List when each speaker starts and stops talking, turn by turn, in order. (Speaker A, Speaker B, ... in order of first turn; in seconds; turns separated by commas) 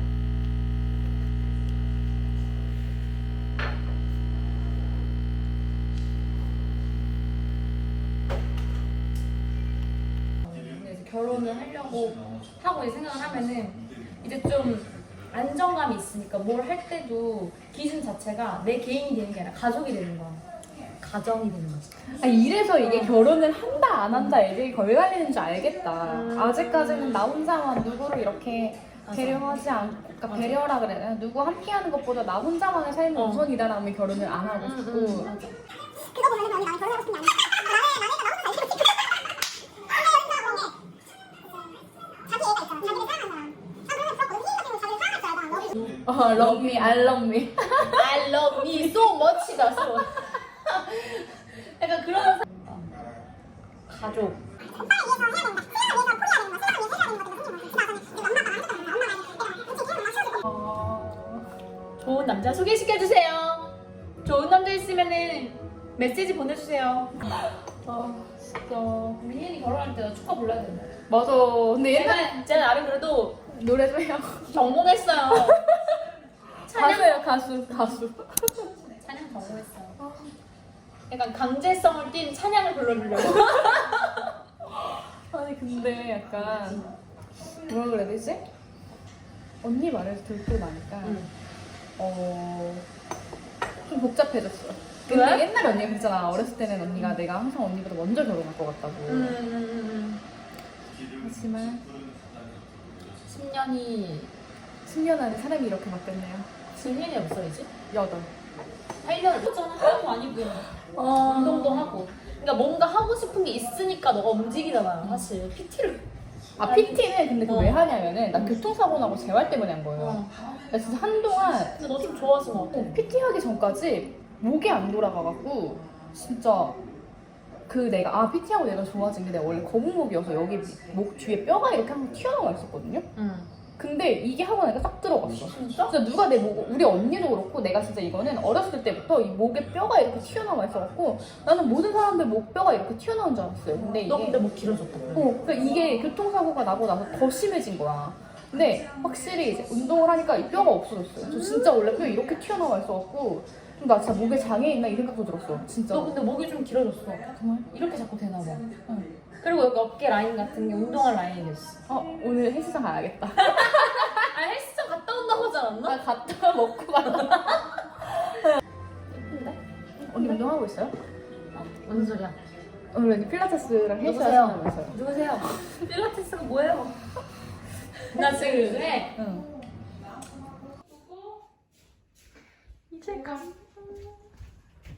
Speaker A: 10.4-20.4, Speaker A: 21.0-22.0, Speaker B: 22.2-35.3, Speaker A: 22.8-23.1, Speaker A: 26.1-27.3, Speaker A: 29.1-29.6, Speaker A: 30.3-30.6, Speaker A: 33.1-33.5, Speaker A: 34.6-35.6, Speaker C: 36.1-38.6, Speaker C: 40.1-40.7, Speaker C: 42.5-43.5, Speaker C: 44.5-45.5, Speaker A: 45.8-47.1, Speaker B: 46.0-48.1, Speaker A: 47.9-53.0, Speaker A: 53.9-54.4, Speaker B: 60.4-61.5, Speaker A: 62.0-67.1, Speaker B: 67.3-69.2, Speaker A: 69.2-70.9, Speaker B: 71.1-72.4, Speaker A: 71.8-73.4, Speaker B: 73.5-75.8, Speaker A: 74.5-75.7, Speaker A: 76.7-77.3, Speaker B: 76.7-78.7, Speaker A: 79.0-80.0, Speaker B: 80.0-80.3, Speaker A: 81.1-84.0, Speaker B: 85.3-86.9, Speaker A: 86.5-86.9, Speaker B: 87.7-88.5, Speaker B: 89.6-91.3, Speaker A: 91.0-91.3, Speaker B: 92.0-92.8, Speaker B: 93.8-99.4, Speaker A: 95.1-95.5, Speaker A: 99.1-100.2, Speaker B: 101.2-101.9, Speaker A: 103.3-104.3, Speaker B: 104.8-106.5, Speaker A: 106.7-107.7, Speaker B: 107.9-108.3, Speaker A: 109.0-116.0, Speaker B: 111.0-111.8, Speaker B: 116.6-121.9, Speaker A: 116.6-118.6, Speaker A: 120.0-120.3, Speaker A: 121.8-123.0, Speaker B: 122.7-126.8, Speaker B: 127.7-133.1, Speaker A: 133.2-133.5, Speaker B: 133.8-144.4, Speaker A: 135.5-135.9, Speaker A: 144.0-145.3, Speaker B: 145.2-156.2, Speaker A: 151.2-152.0, Speaker A: 155.9-158.7, Speaker B: 157.3-157.7, Speaker A: 159.4-161.8, Speaker B: 161.9-164.2, Speaker A: 163.4-166.0, Speaker B: 165.8-167.6, Speaker A: 167.1-167.6, Speaker A: 169.1-169.6, Speaker B: 170.0-170.9, Speaker A: 170.1-170.4, Speaker A: 171.5-172.4, Speaker B: 172.9-174.9, Speaker A: 174.0-177.0, Speaker A: 178.1-179.2, Speaker B: 178.2-179.5, Speaker B: 182.9-183.5, Speaker A: 183.1-183.4